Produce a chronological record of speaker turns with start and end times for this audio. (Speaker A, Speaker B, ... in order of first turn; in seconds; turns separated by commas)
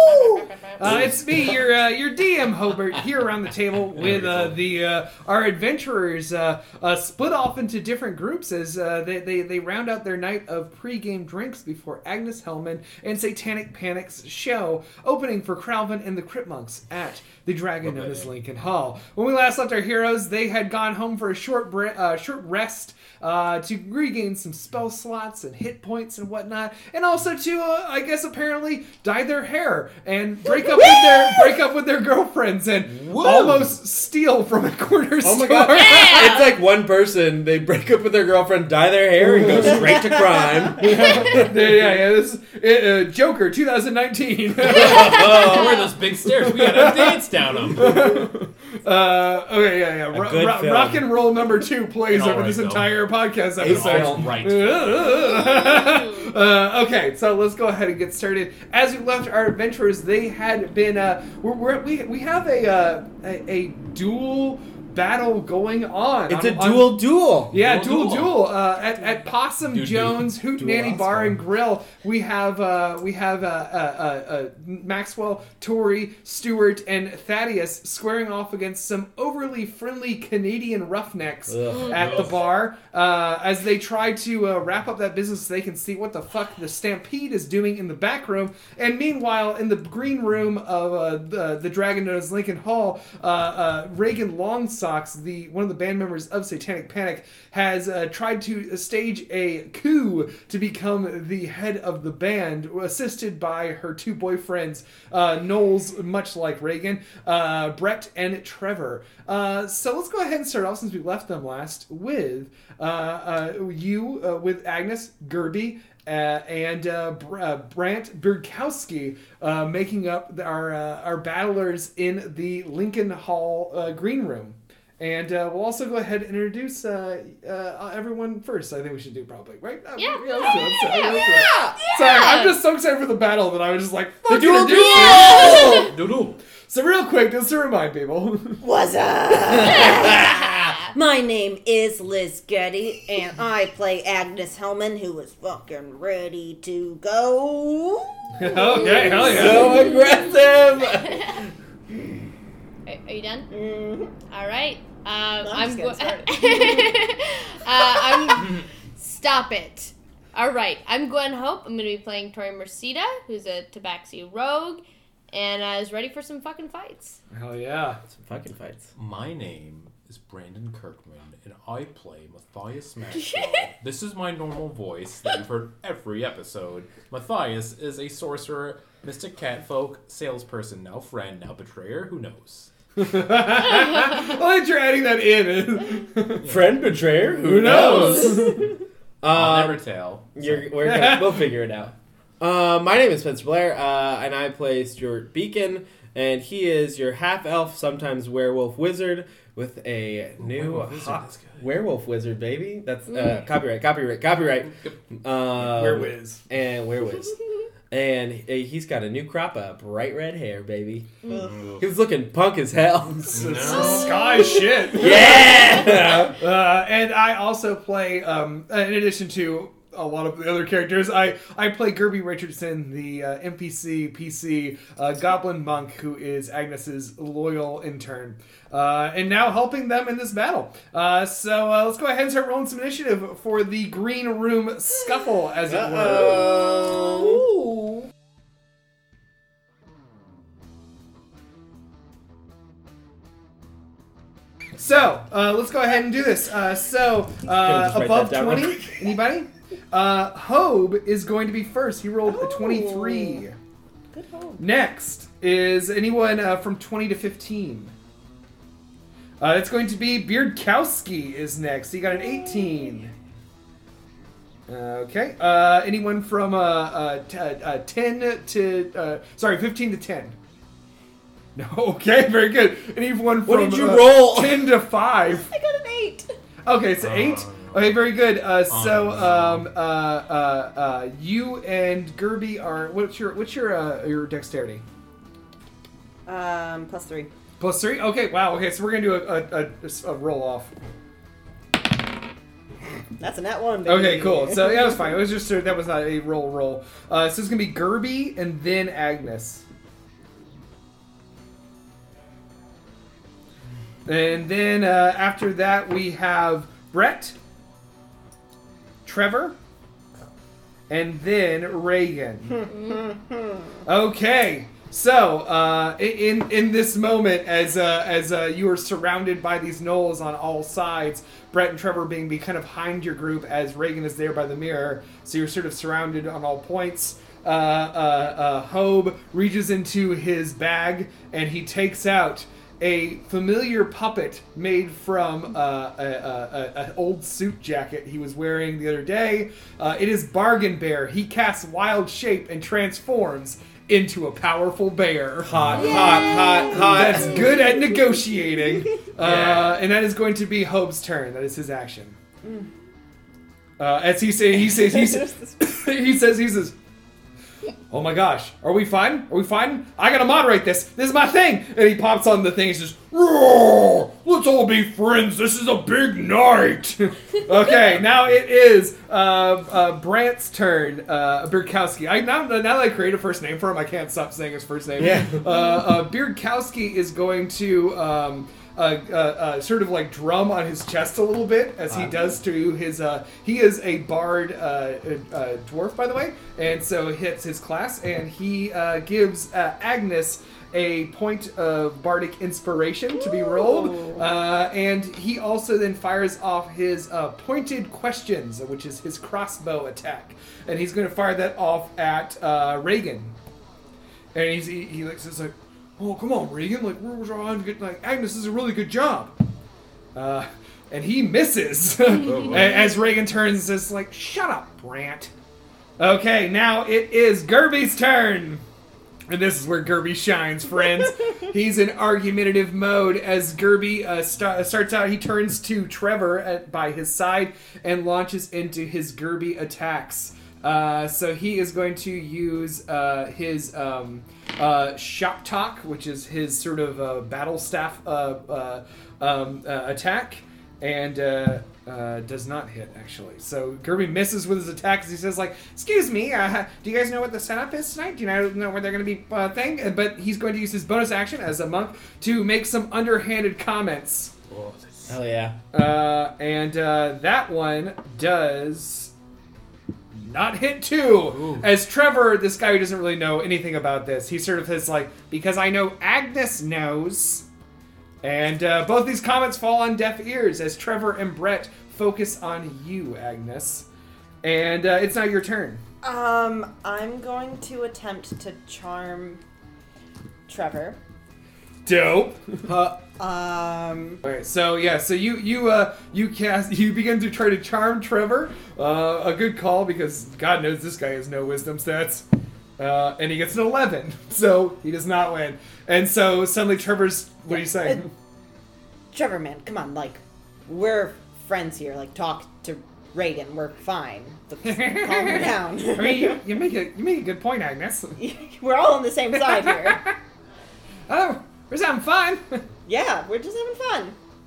Speaker A: 0.8-36.2, Speaker B: 4.0-4.6, Speaker B: 17.8-18.3, Speaker B: 32.9-33.7, Speaker C: 35.2-41.5, Speaker D: 35.7-36.6, Speaker A: 39.3-45.6, Speaker B: 44.6-48.3, Speaker C: 44.8-45.6, Speaker A: 46.2-135.9, Speaker C: 50.1-51.0, Speaker B: 52.1-53.1, Speaker B: 53.6-55.1, Speaker C: 53.6-54.3, Speaker D: 55.5-55.9, Speaker C: 66.3-67.5, Speaker B: 67.5-68.5, Speaker B: 69.7-70.3, Speaker C: 70.6-71.4, Speaker C: 81.5-82.2, Speaker B: 81.9-82.4, Speaker D: 130.0-132.6, Speaker E: 130.4-131.8, Speaker E: 134.3-135.9, Speaker D: 134.9-135.8, Speaker B: 135.8-136.4, Speaker A: 136.7-138.6, Speaker E: 138.6-148.1, Speaker D: 139.7-141.0, Speaker A: 148.4-149.8, Speaker C: 149.1-151.4, Speaker D: 149.7-150.2, Speaker D: 150.8-151.5, Speaker D: 152.9-153.5, Speaker E: 153.5-154.1, Speaker D: 154.3-167.2, Speaker E: 155.4-156.9, Speaker A: 167.3-168.0, Speaker C: 168.1-168.9, Speaker B: 169.0-182.7, Speaker D: 173.2-173.7, Speaker A: 183.0-186.6, Speaker C: 186.4-188.6, Speaker A: 187.3-188.7, Speaker B: 187.6-188.1, Speaker C: 189.2-189.8, Speaker B: 189.2-190.7, Speaker C: 190.3-207.4, Speaker A: 190.8-191.5, Speaker B: 200.4-201.7, Speaker A: 205.6-206.4, Speaker C: 207.9-211.1, Speaker B: 211.3-211.8, Speaker C: 211.8-213.8, Speaker A: 213.3-236.6, Speaker B: 213.3-214.1, Speaker C: 214.9-216.4, Speaker C: 235.7-237.4, Speaker E: 236.3-237.0, Speaker A: 244.8-253.6, Speaker C: 247.4-249.2, Speaker E: 252.3-253.4, Speaker E: 254.1-254.6, Speaker A: 254.6-257.9, Speaker A: 259.4-263.1, Speaker E: 262.5-262.8, Speaker A: 264.7-270.4, Speaker A: 271.6-275.5, Speaker C: 273.4-274.8, Speaker E: 275.2-276.3, Speaker A: 276.6-284.8, Speaker B: 277.0-279.7, Speaker E: 286.2-287.3, Speaker A: 287.6-290.7, Speaker E: 293.2-295.1, Speaker A: 293.9-299.6, Speaker A: 304.1-307.4, Speaker A: 309.1-309.6, Speaker A: 310.9-312.7, Speaker E: 312.7-313.8, Speaker A: 313.9-346.0, Speaker C: 345.5-347.6, Speaker E: 345.7-347.8, Speaker A: 346.7-352.2, Speaker B: 349.2-349.7, Speaker A: 353.8-356.8, Speaker E: 354.7-355.1, Speaker A: 357.9-403.4, Speaker C: 375.0-375.4, Speaker C: 381.9-382.1, Speaker E: 393.2-394.2, Speaker A: 404.3-409.3, Speaker A: 410.1-415.3, Speaker B: 412.2-412.9, Speaker A: 416.0-418.6, Speaker A: 419.3-454.3, Speaker B: 454.5-455.2, Speaker C: 455.1-455.6, Speaker A: 455.7-459.1, Speaker A: 460.1-467.4, Speaker B: 461.3-461.7, Speaker A: 468.2-473.9, Speaker A: 474.4-475.8, Speaker E: 476.0-479.4, Speaker E: 480.5-481.0, Speaker A: 481.8-482.6, Speaker C: 482.7-483.0, Speaker E: 483.2-484.2, Speaker A: 484.2-492.3, Speaker A: 492.8-498.1, Speaker E: 497.5-498.0, Speaker E: 499.1-506.4, Speaker A: 504.6-508.2, Speaker E: 508.2-510.0, Speaker A: 509.4-510.2, Speaker A: 511.1-512.6, Speaker E: 512.9-514.2